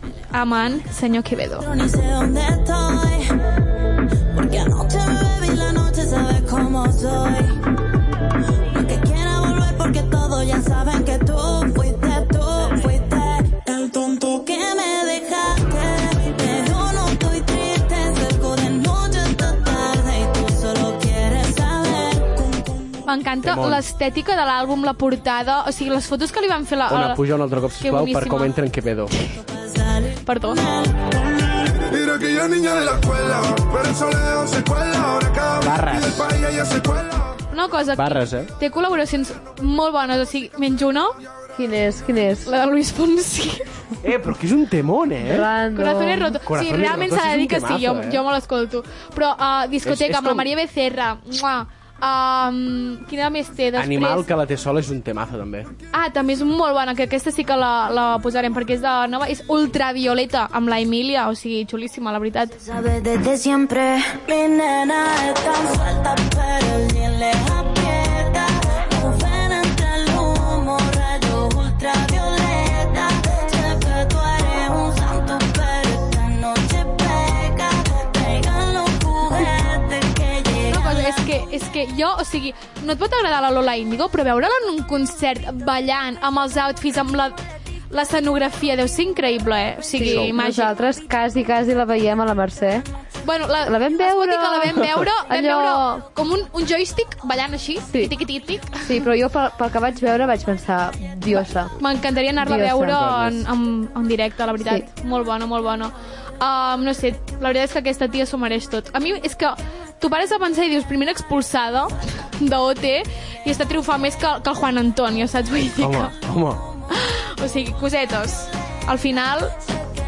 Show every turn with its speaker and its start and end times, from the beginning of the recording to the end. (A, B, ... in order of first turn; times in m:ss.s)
0:00.3-0:01.7 A
0:01.6-0:03.3 B
0:04.3-0:07.6 B
0:08.7-0:22.9 B
0:23.0-0:27.2 A
0:23.4-0:23.8 C
0:26.9-0:29.1 C
0:27.8-0:28.5 A
0:29.4-0:31.7 B
0:30.2-0:30.6 A
0:31.8-0:37.4 D
0:35.6-0:36.3 C
0:37.5-0:41.2 A
0:37.9-0:38.5 C
0:41.5-0:42.5 E
0:42.4-0:43.7 A
0:44.0-0:45.5 C
0:45.2-0:46.4 E
0:45.7-0:54.2 A
0:46.4-0:48.2 C
0:49.8-0:50.5 C
0:53.8-0:55.7 C
0:55.9-1:02.6 A
1:02.6-1:21.2 B
1:20.7-1:27.4 A
1:27.9-1:30.7 A
1:30.0-1:32.8 E
1:30.0-1:30.3 C
1:33.2-1:38.8 A
1:33.6-1:35.9 E
1:38.8-1:41.7 E
1:41.3-1:56.1 A
1:42.4-1:43.1 E
1:42.9-1:43.4 C
1:44.6-1:44.8 E
1:55.8-1:56.7 C
1:56.9-1:59.6 A